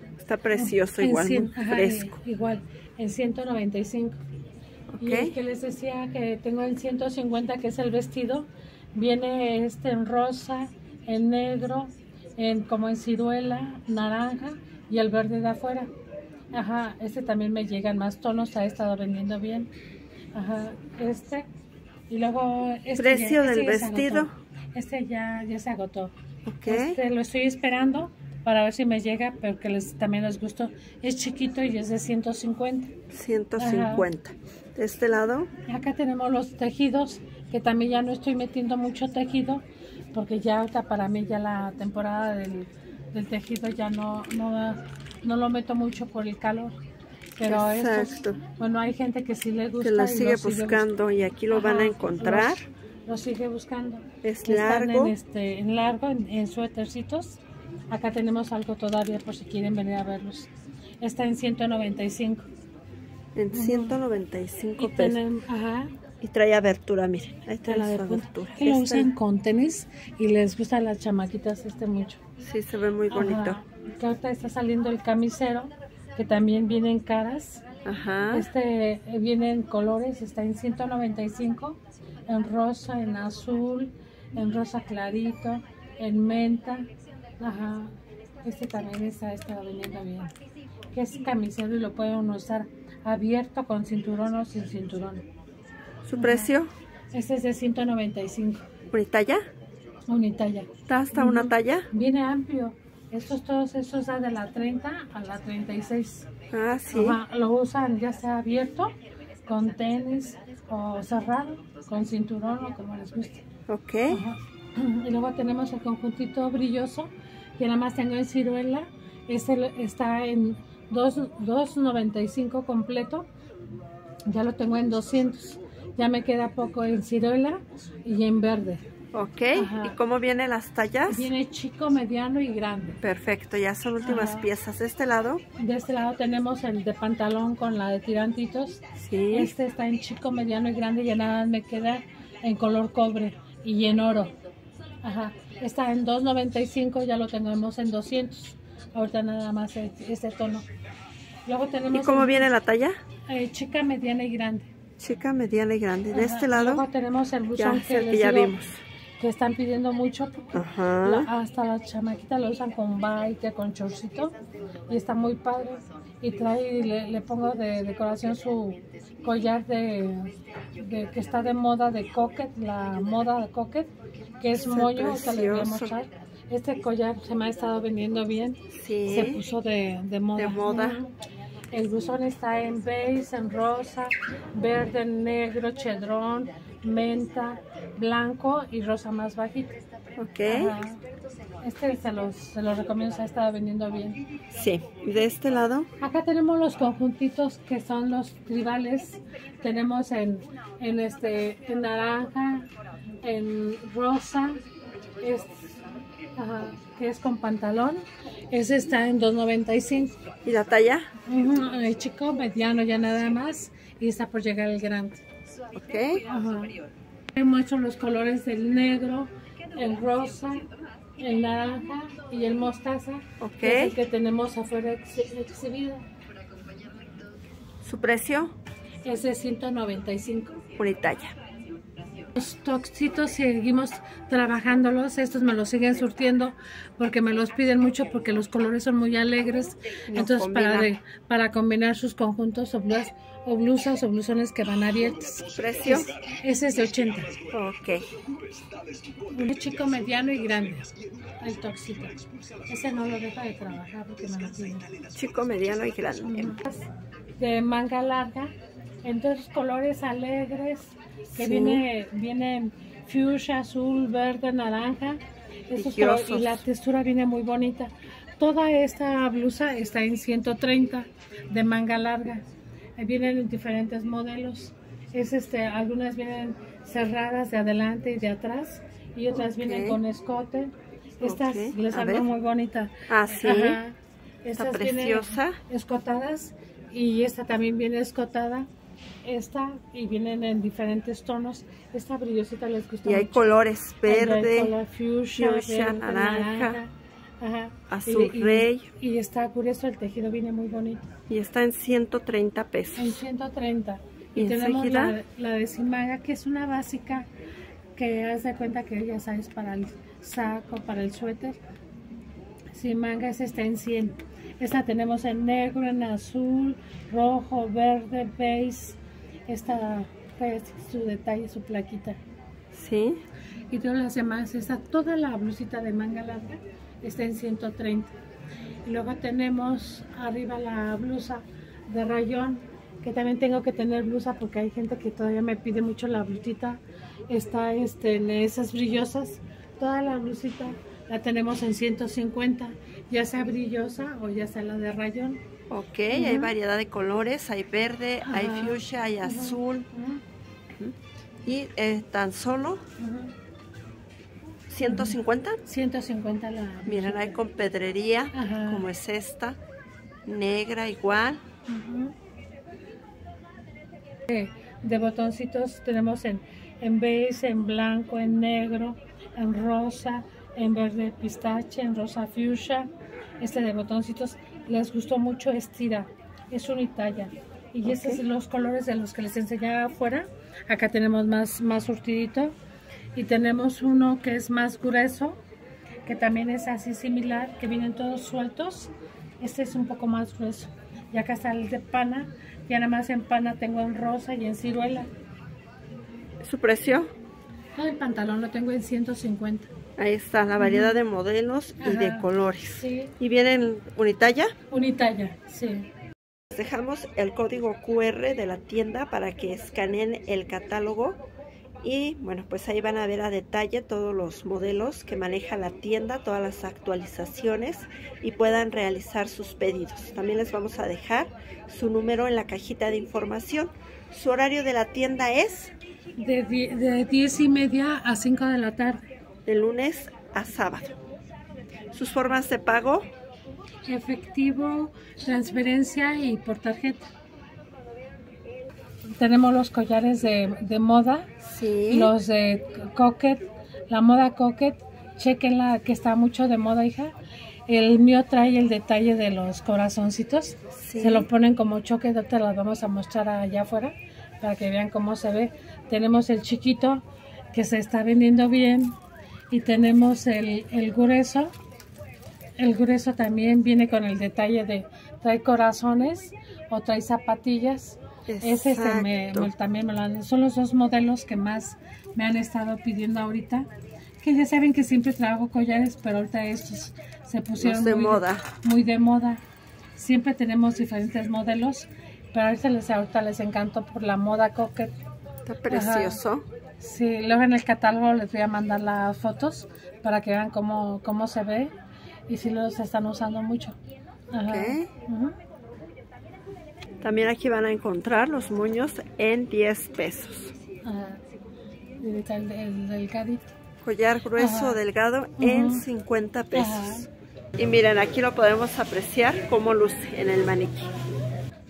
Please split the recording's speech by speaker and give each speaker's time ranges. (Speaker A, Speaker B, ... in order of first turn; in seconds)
Speaker A: 0.2-2.1, 4.9-5.3, 23.0-24.3, 26.4-27.0, 33.1-35.5, 47.4-48.4, 49.8-52.6, 54.2-55.1, 63.3-65.2, 66.2-69.1, 72.4-73.6, 77.8-78.5, 96.0-96.7, 98.9-99.4, 100.9-101.9, 106.5-107.2, 113.7-114.2, 129.1-131.3, 133.0-135.4, 139.0-139.5, 151.9-153.0, 155.0-156.8, 157.6-158.8, 160.5-161.3, 174.7-175.9, 178.7-179.4, 180.3-181.0, 190.2-190.7, 194.5-195.9, 210.4-211.1, 215.7-216.2, 223.4-223.9, 227.8-228.6, 230.8-231.3, 240.1-240.9, 245.5-246.1, 247.5-248.1, 255.1-256.6, 261.4-261.8, 265.8-266.6, 279.3-280.0, 281.2-282.2, 283.1-283.8, 284.6-285.6, 293.0-294.7, 295.4-296.8, 297.9-298.9, 301.3-303.2, 304.3-305.1, 322.7-323.2, 345.7-349.9, 350.7-352.8, 354.7-355.6, 356.9-359.6, 360.2-361.4, 377.8-378.2, 396.4-397.1, 400.0-404.5, 406.5-411.2, 411.8-425.7, 429.4-431.0, 431.9-433.1, 441.4-442.1, 450.7-451.3, 468.3-469.5, 477.6-478.4, 485.4-486.4, 494.5-494.9, 497.0-500.5, 503.8-510.9
Speaker B: 0.5-4.2, 5.0-15.9, 16.5-19.7, 20.3-21.5, 22.1-26.1, 26.7-32.9, 33.6-34.1, 35.7-46.8, 47.4-50.9, 51.5-57.4, 57.9-60.5, 61.0-62.4, 63.5-64.0, 64.8-65.9, 67.7-72.2, 73.1-77.6, 78.3-90.3, 90.9-95.2, 96.2-96.5, 97.1-98.7, 100.1-106.3, 106.9-108.9, 109.5-113.5, 114.1-123.3, 124.3-128.8, 129.5-129.9, 131.1-133.0, 134.0-134.5, 135.6-144.3, 145.0-150.7, 151.4-152.5, 153.3-154.7, 156.1-158.5, 159.2-164.3, 164.9-181.1, 181.7-189.8, 190.4-191.0, 191.6-194.2, 196.0-202.7, 203.2-204.6, 205.2-205.7, 206.3-210.2, 211.2-215.2, 216.2-216.8, 217.3-226.1, 229.0-230.6, 232.3-247.3, 249.3-255.0, 256.2-256.9, 257.4-258.5, 259.0-272.4, 273.0-288.7, 289.2-293.5, 294.0-301.1, 302.9-307.3, 307.9-311.6, 312.7-322.2, 323.7-328.1, 328.9-345.4, 346.1-346.5, 348.2-350.2, 353.0-353.3, 354.8-355.1, 355.6-357.4, 358.3-358.8, 361.7-362.1, 364.3-382.5, 383.1-385.4, 386.1-395.1, 397.8-399.7, 400.6-400.9, 401.8-403.1, 404.7-405.9, 426.2-429.0, 433.9-437.1, 439.1-441.3, 441.9-447.1, 447.7-458.9, 459.5-461.5, 462.6-473.7, 474.2-479.4, 479.9-484.9, 485.7-486.2, 486.8-491.7, 492.3-493.8, 494.3-495.3, 500.8-501.2, 502.0-503.5, 504.4-504.8, 505.4-505.9, 506.5-507.1